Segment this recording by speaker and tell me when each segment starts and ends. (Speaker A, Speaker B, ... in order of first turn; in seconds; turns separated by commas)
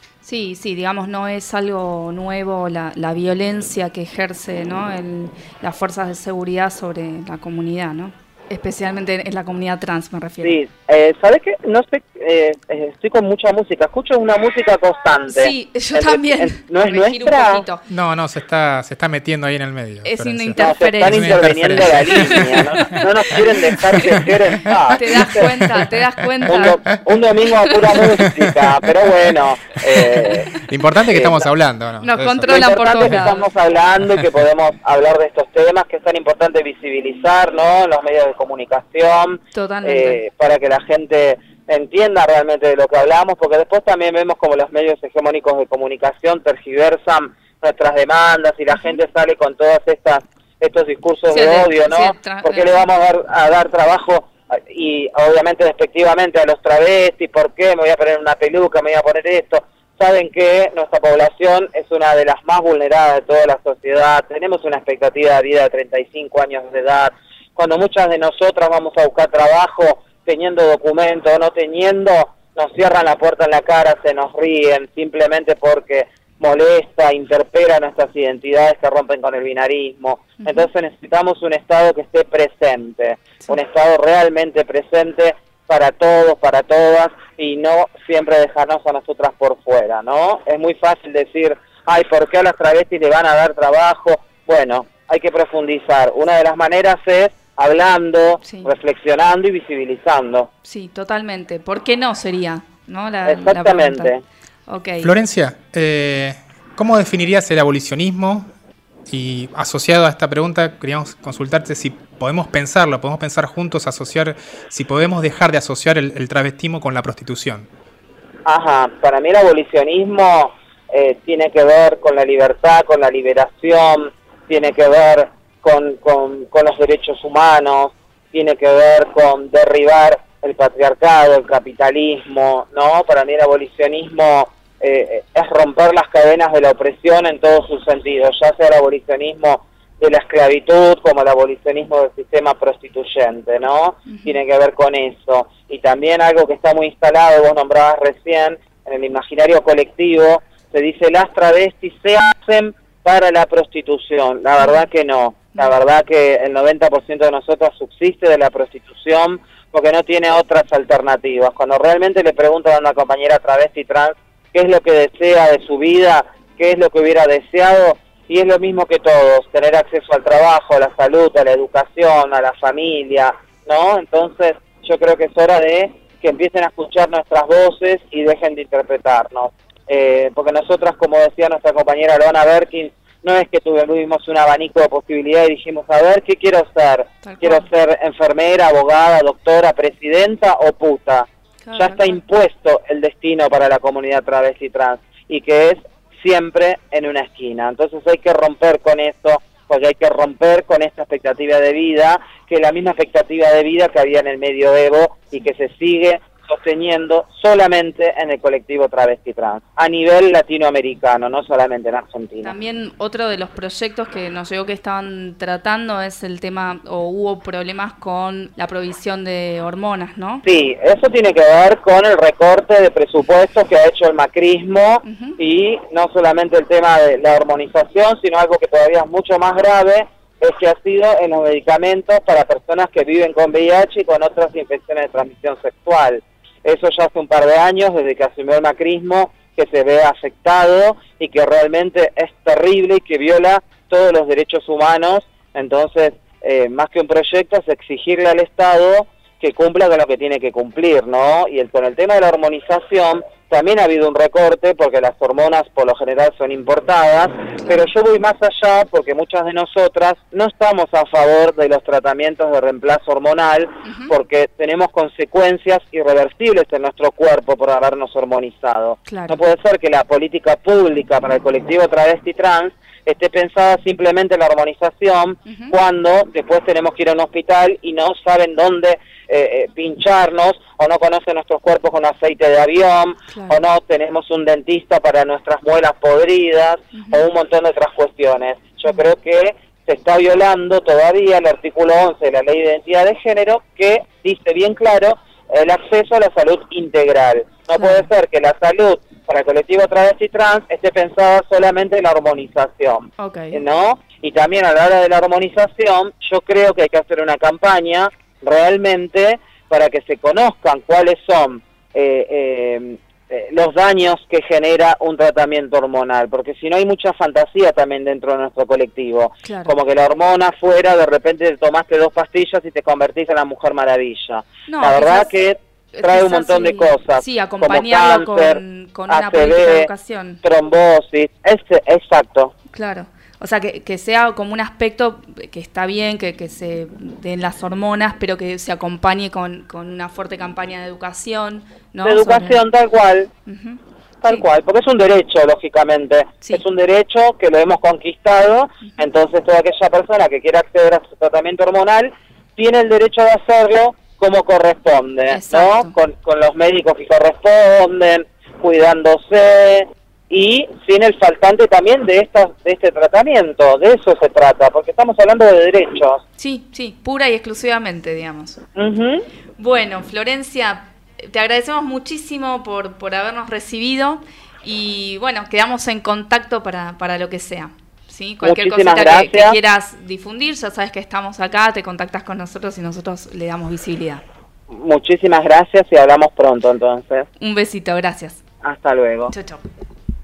Speaker A: 0.2-10.6, Speaker B: 10.4-17.6, Speaker A: 15.3-17.8, Speaker C: 17.9-24.1, Speaker A: 20.1-23.5, Speaker B: 20.6-25.7, Speaker A: 24.9-26.8, Speaker C: 25.1-25.8, Speaker B: 26.5-31.4, Speaker A: 27.7-28.0, Speaker C: 30.5-33.2, Speaker A: 32.0-33.5, Speaker B: 32.5-100.5, Speaker A: 39.5-40.2, Speaker A: 51.3-52.8, Speaker A: 80.4-80.7, Speaker A: 98.4-98.7, Speaker A: 100.6-104.1, Speaker B: 103.2-104.2, Speaker A: 104.7-105.1, Speaker C: 105.0-108.5, Speaker C: 109.1-117.7, Speaker B: 118.5-212.5, Speaker A: 144.1-144.4, Speaker A: 187.2-187.7, Speaker A: 191.7-192.2, Speaker A: 212.4-220.4, Speaker B: 220.5-329.9, Speaker A: 225.1-225.4, Speaker A: 257.6-257.9, Speaker A: 263.9-264.1, Speaker A: 269.1-269.4, Speaker A: 275.5-275.8, Speaker A: 283.3-283.6, Speaker A: 286.9-287.2, Speaker A: 297.8-298.1, Speaker A: 303.2-303.6, Speaker A: 319.4-319.8, Speaker A: 324.7-325.3, Speaker A: 325.9-330.4, Speaker B: 330.4-332.5, Speaker A: 332.7-342.6, Speaker B: 342.0-343.3, Speaker A: 343.5-344.4, Speaker B: 344.2-366.2, Speaker A: 355.3-355.9, Speaker A: 366.4-368.6, Speaker B: 368.8-369.2, Speaker A: 369.6-384.2, Speaker B: 378.4-379.6, Speaker B: 384.7-387.3, Speaker A: 387.4-388.4, Speaker B: 388.6-389.3, Speaker A: 389.3-389.6